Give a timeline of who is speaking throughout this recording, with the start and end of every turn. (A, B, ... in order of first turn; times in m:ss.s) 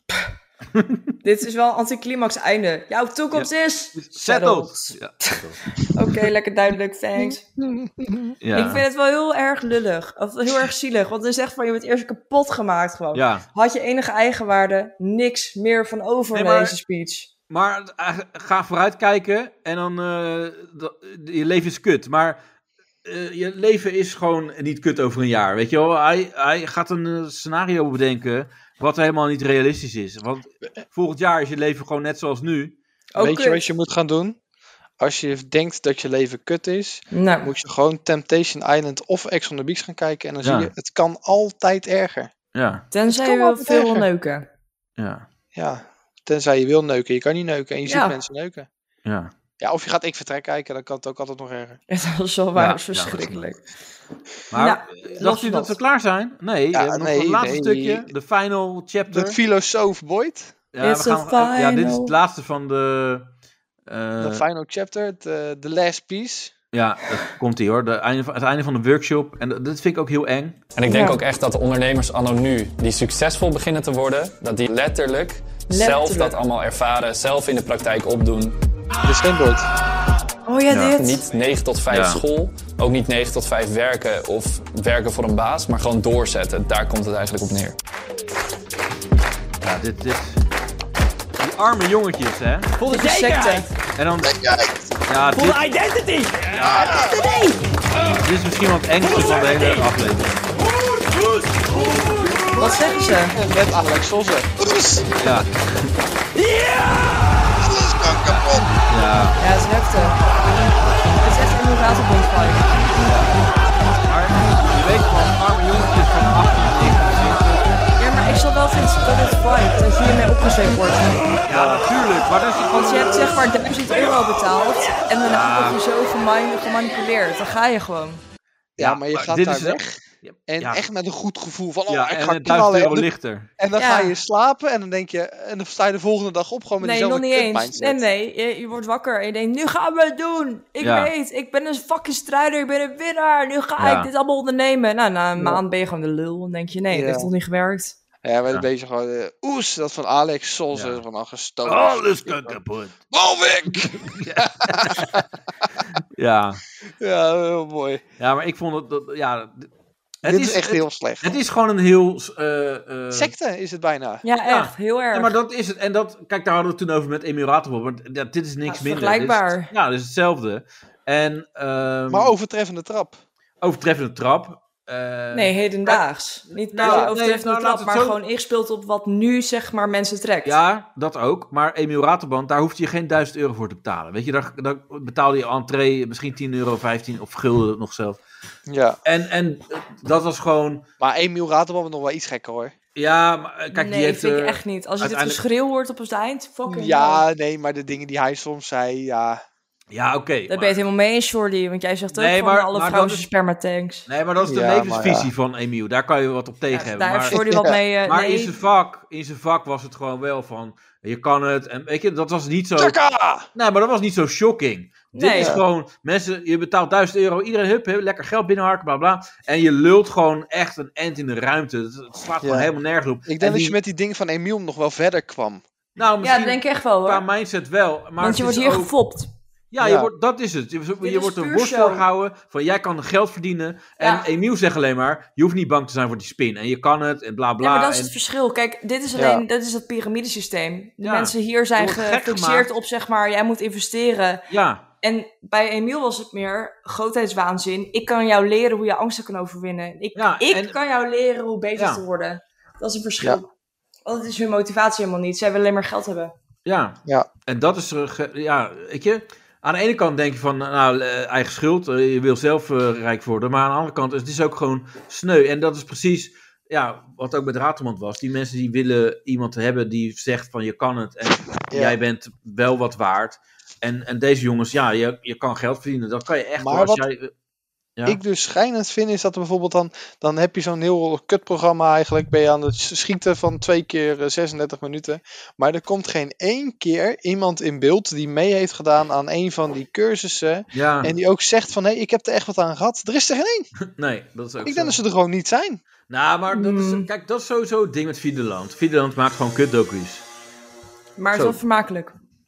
0:00.7-0:01.1 A
0:01.2-0:07.4 B
0:03.3-0:05.6 A
0:07.2-0:08.3 C
0:08.4-0:08.8 A
0:08.5-0:17.3 B
0:13.1-0:13.4 A
0:16.3-0:16.8 A
0:17.5-0:22.4 A
0:23.0-0:32.7 A
0:33.1-0:33.6 B
0:33.2-0:34.4 C
0:35.0-0:42.3 C
0:37.1-0:37.5 B
0:40.4-0:40.7 A
0:42.5-0:42.8 A
0:42.9-0:44.4 B
0:43.1-0:44.1 C
0:45.0-0:45.2 A
0:45.5-0:48.7 C
0:47.8-0:48.2 B
0:49.0-0:49.3 A
0:49.6-0:51.8 C
0:51.9-0:53.6 B
0:52.6-0:53.5 A
0:54.5-0:59.4 A
0:54.5-0:55.8 B
0:56.7-0:58.1 C
0:59.1-1:00.5 C
1:00.7-1:03.3 A
1:00.8-1:02.2 B
1:03.9-1:04.4 A
1:04.2-1:06.5 C
1:06.7-1:10.6 A
1:10.8-1:18.5 D
1:10.9-1:11.2 B
1:15.7-1:16.4 B
1:19.0-1:19.7 C
1:20.4-1:21.2 B
1:21.0-1:27.7 D
1:21.9-1:22.2 A
1:29.6-1:30.4 A
1:31.4-1:32.7 A
1:32.8-1:33.7 E
1:32.8-1:33.7 B
1:34.0-1:34.4 A
1:34.2-1:34.9 C
1:35.0-1:35.6 A
1:35.3-1:37.6 E
1:36.5-1:37.0 A
1:36.8-1:37.1 C
1:38.0-1:40.4 A
1:39.0-1:39.9 E
1:42.6-1:43.4 B
1:43.3-1:45.1 C
1:45.2-1:45.9 A
1:46.4-1:47.3 E
1:47.6-1:48.7 C
1:48.2-1:49.4 A
1:49.4-1:50.2 B
1:51.2-1:52.7 B
1:53.0-1:53.3 A
1:54.0-1:57.7 A
1:58.0-2:01.4 B
2:01.5-2:03.5 A
2:01.5-2:01.8 C
2:02.6-2:08.2 B
2:05.2-2:05.8 A
2:08.8-2:10.0 C
2:08.8-2:10.8 A
2:10.5-2:13.1 C
2:11.9-2:13.5 A
2:13.6-2:18.0 C
2:13.8-2:14.1 B
2:16.8-2:27.9 B
2:20.8-2:21.1 A
2:23.8-2:24.1 A
2:26.9-2:27.3 C
2:28.2-2:32.6 C
2:30.7-2:31.0 A
2:31.6-2:33.0 A
2:33.1-2:35.2 C
2:34.1-2:35.2 A
2:36.2-2:36.6 A
2:37.0-2:38.0 C
2:38.2-2:39.7 A
2:40.2-2:43.3 A
2:40.2-2:41.3 C
2:43.1-2:44.2 C
2:44.2-2:45.3 B
2:44.4-2:52.3 A
2:48.6-2:49.7 B
2:52.1-2:53.2 C
2:53.6-2:56.0 A
2:55.3-3:00.6 B
2:56.7-2:58.2 A
2:56.8-2:57.1 C
3:00.4-3:08.2 A
3:08.7-3:09.0 C
3:09.0-3:10.8 A
3:11.0-3:12.7 C
3:13.0-3:15.4 A
3:13.7-3:17.2 B
3:16.7-3:19.4 C
3:19.9-3:20.8 A
3:20.5-3:24.0 B
3:22.1-3:23.3 A
3:24.1-3:27.4 A
3:24.4-3:25.3 C
3:26.7-3:28.5 B
3:27.3-3:27.8 C
3:28.0-3:33.0 A
3:32.8-3:33.5 C
3:33.5-3:43.8 A
3:35.1-3:35.6 B
3:42.4-3:42.7 C
3:43.2-3:45.6 C
3:46.0-3:48.9 A
3:46.2-3:47.2 B
3:48.2-3:49.3 B
3:49.7-3:58.1 A
3:49.8-3:50.1 C
3:51.0-3:52.0 B
3:54.0-3:54.3 B
3:57.6-4:04.4 B
3:59.2-3:59.4 C
4:01.0-4:02.7 A
4:04.5-4:04.8 A
4:05.0-4:13.5 B
4:10.2-4:10.8 A
4:11.8-4:12.0 A
4:14.0-4:16.3 B
4:16.6-4:37.3 A
4:31.7-4:32.0 C
4:36.6-4:37.0 C
4:38.0-4:53.7 C
4:50.7-4:51.1 A
4:53.8-4:55.0 A
4:54.6-4:55.8 C
4:56.1-5:00.2 A
4:56.5-4:57.1 B
5:01.2-5:02.2 B
5:01.3-5:01.6 A